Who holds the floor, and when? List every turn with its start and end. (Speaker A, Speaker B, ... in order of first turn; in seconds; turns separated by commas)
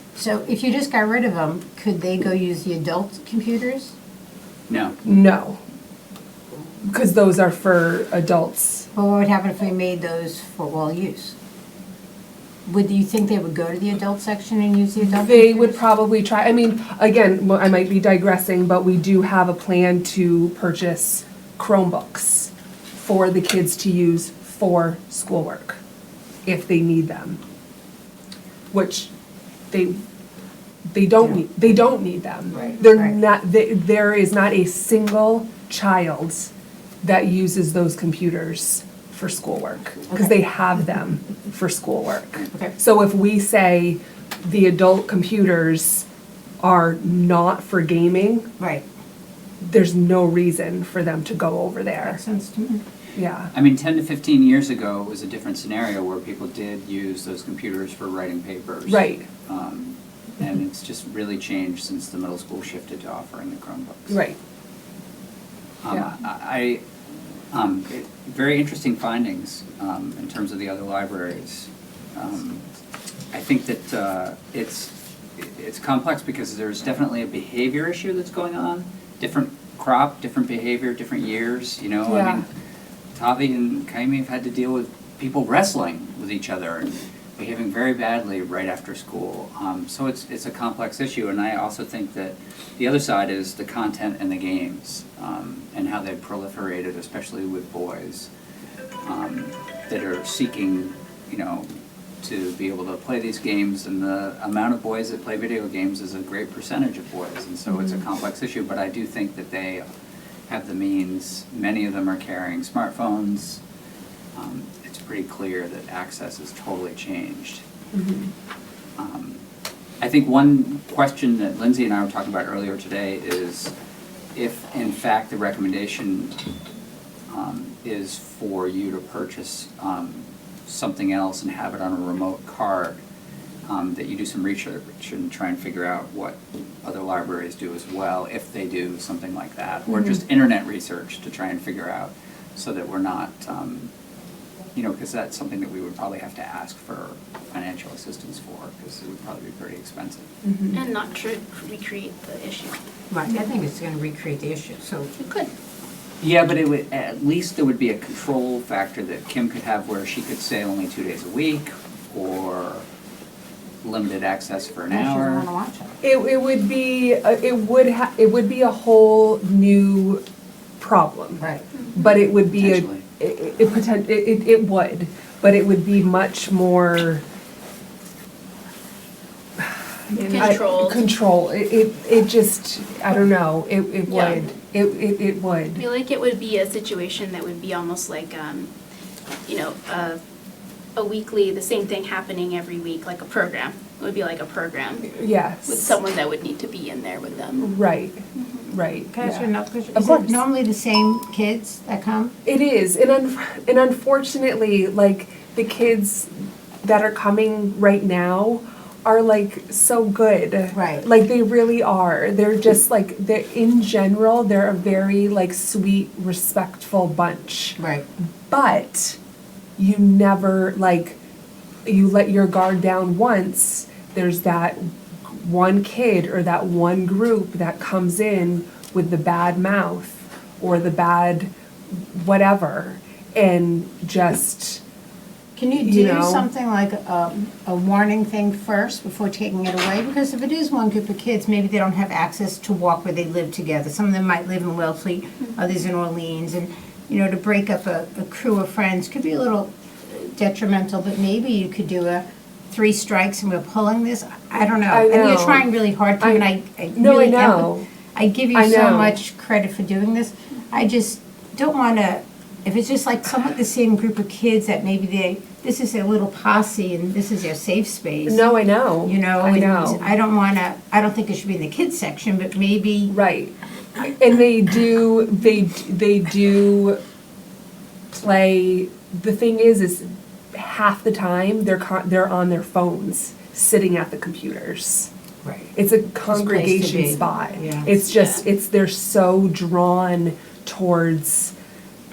Speaker A: 0.1-4.0, Speaker B: 4.7-5.0, Speaker C: 5.0-5.6, Speaker C: 6.8-8.9, Speaker A: 8.9-11.4, Speaker A: 12.7-15.8, Speaker C: 15.2-25.8, Speaker C: 26.4-27.4, Speaker C: 28.7-29.1, Speaker C: 29.7-30.0, Speaker C: 30.9-46.1, Speaker A: 32.5-33.2, Speaker C: 46.6-48.5, Speaker A: 48.6-48.9, Speaker C: 49.6-52.2, Speaker A: 52.0-52.8, Speaker C: 53.1-53.5, Speaker B: 53.5-64.2, Speaker C: 58.9-59.3, Speaker C: 64.1-64.4, Speaker B: 65.8-66.8, Speaker B: 67.5-72.7, Speaker B: 73.3-82.5, Speaker C: 82.1-82.4, Speaker B: 83.2-98.3, Speaker B: 99.0-101.7, Speaker B: 102.2-109.8, Speaker C: 107.7-108.0, Speaker B: 110.5-113.6, Speaker B: 114.3-117.6, Speaker C: 117.9-118.3, Speaker B: 119.0-119.4, Speaker B: 120.0-123.7, Speaker B: 124.3-126.4, Speaker B: 127.3-133.0, Speaker B: 133.7-143.9, Speaker B: 144.8-150.3, Speaker C: 150.5-150.8, Speaker D: 150.7-152.8, Speaker A: 153.1-155.1, Speaker D: 155.2-155.5, Speaker B: 156.2-162.9, Speaker B: 163.8-165.5, Speaker A: 164.9-165.9, Speaker C: 166.0-170.2, Speaker C: 170.8-177.2, Speaker B: 172.5-173.1, Speaker C: 180.1-185.8, Speaker D: 180.1-181.1, Speaker D: 184.1-184.4, Speaker D: 185.8-188.7, Speaker D: 189.5-190.2, Speaker D: 191.0-195.1, Speaker C: 195.1-196.0, Speaker D: 195.7-197.7, Speaker C: 197.6-200.4, Speaker D: 198.3-198.7, Speaker A: 199.1-202.3, Speaker C: 202.5-206.3, Speaker C: 206.8-217.8, Speaker A: 210.7-211.1, Speaker A: 217.8-218.1, Speaker C: 218.5-219.2, Speaker C: 219.8-221.2, Speaker C: 221.9-234.8, Speaker A: 235.6-268.4, Speaker C: 235.8-236.5, Speaker C: 254.9-255.7, Speaker C: 256.2-257.9, Speaker C: 258.5-259.2, Speaker C: 268.3-270.1, Speaker A: 269.0-273.1, Speaker C: 273.1-277.0, Speaker C: 278.1-285.1, Speaker A: 285.4-285.7, Speaker C: 285.8-291.5, Speaker A: 286.3-287.9, Speaker D: 288.0-288.4